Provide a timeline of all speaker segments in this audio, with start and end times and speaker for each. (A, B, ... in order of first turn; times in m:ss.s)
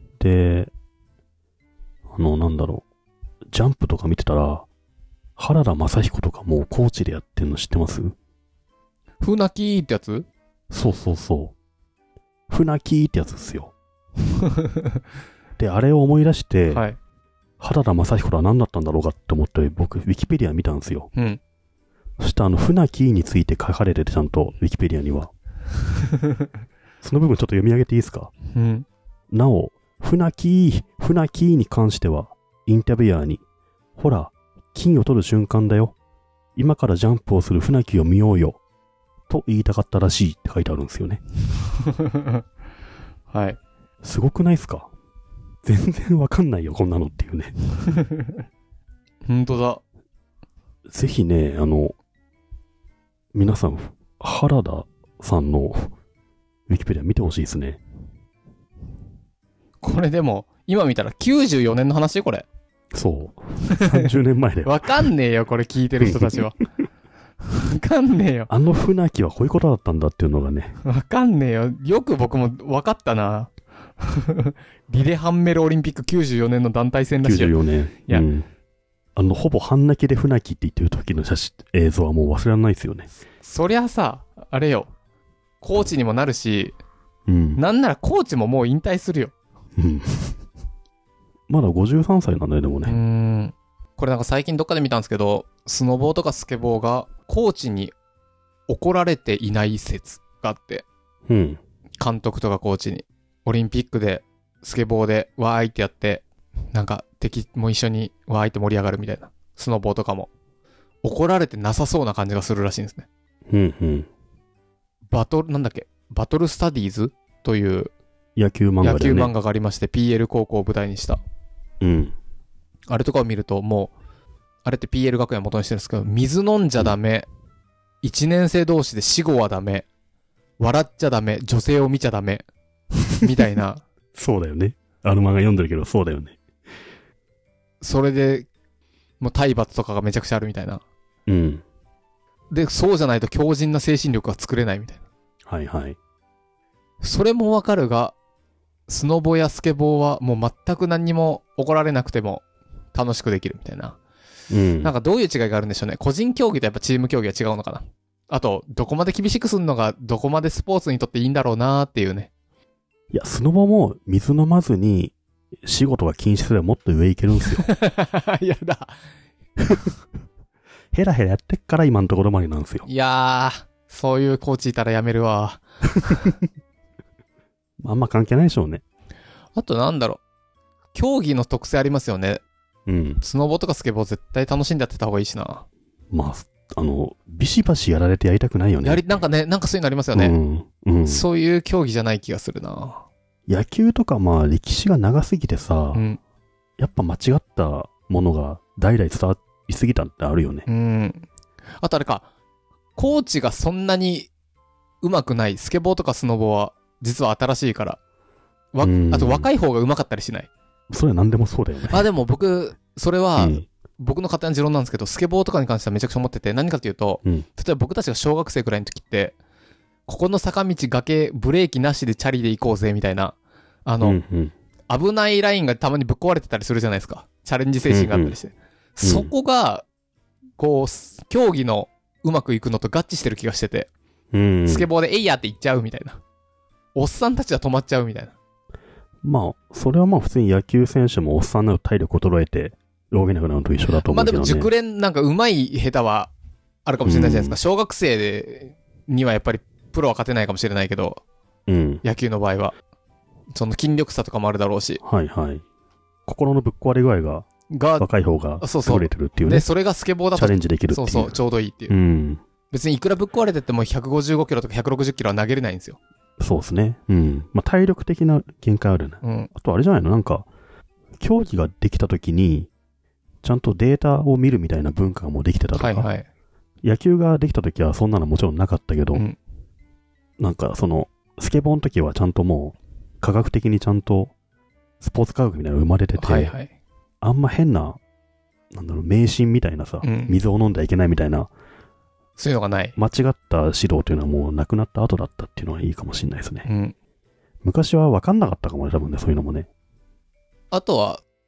0:00.2-0:00.7 A
0:02.1-0:02.8 A
0:03.5-0:04.7 A
0:05.4-0:08.1 A
0:09.2-0:10.3 B
0:10.7-0:11.5 A
0:12.5-0:13.7 A
0:14.5-0:14.8 B
0:15.6-0:16.9 A
0:16.7-0:17.0 B
0:17.6-0:21.1 A
0:21.1-0:21.4 B
0:22.2-0:25.3 A
0:27.0-0:28.3 A
0:28.5-0:28.9 B
0:29.3-0:33.4 A
0:34.0-0:36.0 A
0:36.6-0:38.6 A
0:39.3-0:41.2 A
0:41.9-0:42.3 B
0:43.3-0:43.6 B
0:44.0-0:44.9 A
0:45.6-0:47.6 A
0:48.0-0:48.3 B
0:49.3-0:49.8 B
0:50.9-0:51.9 A
0:53.3-0:55.9 A
0:56.7-0:57.8 A
0:59.8-1:02.5 B
1:02.9-1:05.1 A
1:03.7-1:04.1 B
1:04.6-1:06.6 B
1:06.0-1:06.6 A
1:07.5-1:08.5 B
1:08.5-1:10.8 A
1:10.8-1:17.6 B
1:17.2-1:18.5 A
1:19.2-1:23.1 A
1:23.4-1:24.9 B
1:25.6-1:26.8 B
1:27.3-1:27.6 A
1:27.6-1:29.3 B
1:29.8-1:30.4 A
1:31.5-1:33.0 A
1:32.8-1:37.9 B
1:38.7-1:40.9 B
1:41.3-1:41.6 A
1:42.0-1:50.3 B
1:51.0-1:53.1 B
1:53.5-1:54.1 A
1:55.1-1:57.9 B
1:58.4-1:59.3 A
1:58.8-2:01.2 B
2:01.8-2:02.1 A
2:02.9-2:03.9 B
2:04.6-2:07.3 B
2:08.0-2:09.9 B
2:10.6-2:12.4 B
2:13.2-2:13.8 B
2:14.2-2:16.4 A
2:17.8-2:18.5 B
2:19.2-2:20.8 B
2:21.3-2:21.6 A
2:22.5-2:25.0 B
2:25.5-2:26.0 A
2:27.0-2:28.2 B
2:28.9-2:32.4 B
2:32.9-2:34.0 B
2:34.5-2:34.9 A
2:34.8-2:42.3 B
2:43.1-2:47.7 A
2:47.6-2:49.0 B
2:49.7-2:49.9 A
2:50.9-2:52.9 A
2:52.9-2:56.3 B
2:57.8-2:58.8 A
2:59.6-3:00.2 B
3:00.9-3:02.4 B
3:02.9-3:03.2 A
3:03.2-3:05.6 B
3:06.1-3:09.2 A
3:08.8-3:10.4 B
3:10.1-3:11.2 A
3:11.0-3:13.0 B
3:13.5-3:16.0 A
3:15.9-3:16.2 B
3:16.8-3:20.7 A
3:20.7-3:21.3 B
3:21.8-3:22.3 B
3:23.0-3:24.3 B
3:25.0-3:28.0 B
3:28.7-3:30.5 B
3:28.8-3:29.5 A
3:30.9-3:32.0 A
3:31.9-3:39.4 B
3:33.4-3:33.7 A
3:40.1-3:44.2 B
3:44.0-3:44.5 A
3:44.9-3:49.8 B
3:47.9-3:48.4 A
3:49.0-3:49.3 A
3:50.6-3:53.9 B
3:54.3-3:54.9 A
3:54.7-3:56.2 B
3:57.0-3:58.4 B
3:59.2-4:04.7 A
4:04.0-4:06.3 B
4:06.9-4:11.2 B
4:07.0-4:07.6 A
4:11.7-4:12.0 A
4:12.0-4:12.8 B
4:13.5-4:15.0 B
4:15.0-4:15.6 A
4:16.3-4:17.5 A
4:17.7-4:18.1 B
4:18.0-4:19.7 A
4:18.6-4:22.0 B
4:20.4-4:22.4 A
4:22.7-4:26.0 B
4:26.4-4:30.5 A
4:29.2-4:29.5 B
4:31.2-4:32.7 A
4:33.4-4:36.1 A
4:35.8-4:36.3 B
4:36.8-4:39.2 A
4:40.4-4:44.3 A
4:45.0-4:46.6 A
4:46.2-4:46.7 B
4:47.2-4:48.0 A
4:48.7-4:51.5 A
4:50.0-4:50.3 B
4:52.4-4:53.0 B
4:53.0-4:56.7 A
4:56.6-4:56.9 B
4:57.6-4:59.7 A
5:00.7-5:01.2 B